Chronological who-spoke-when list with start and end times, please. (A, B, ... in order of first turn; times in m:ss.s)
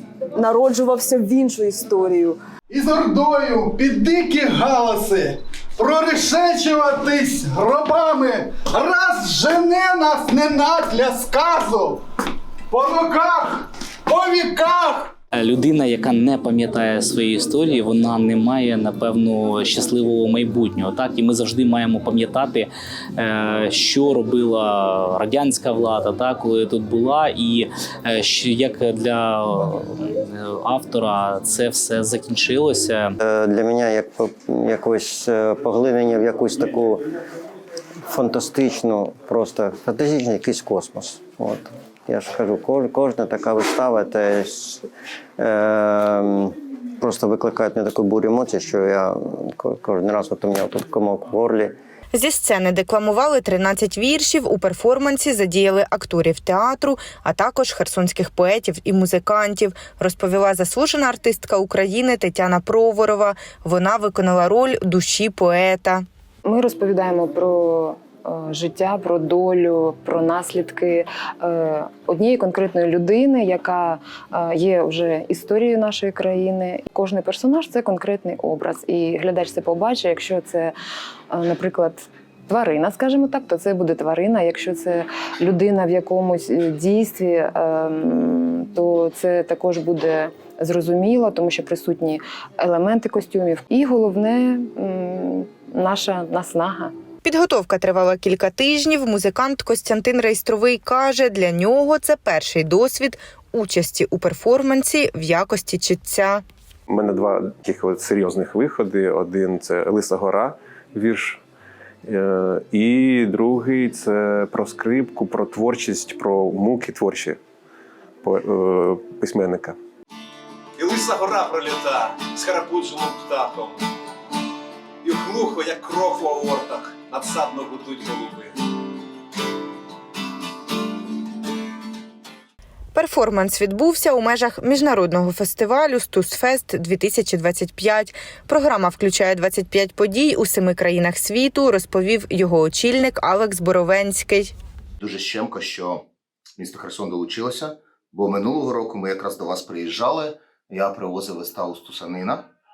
0:00.3-0:02.4 A
0:02.7-0:11.9 B
0:12.7-0:13.3 B
0:14.2-0:15.0 B
0:15.3-0:33.1 C
0:33.2-0:37.0 D
0:38.0-0:44.8 D
0:45.4-0:51.8 D
0:52.1-1:06.0 E
1:06.4-1:20.7 F
1:21.3-1:36.9 F
1:37.2-1:46.4 E
1:46.9-1:51.4 G
1:52.0-1:57.4 G
1:58.2-1:59.8 G
2:00.8-2:03.8 H
2:05.0-2:08.5 H
2:12.9-2:24.5 E
2:25.0-2:26.0 I
2:26.6-2:32.4 I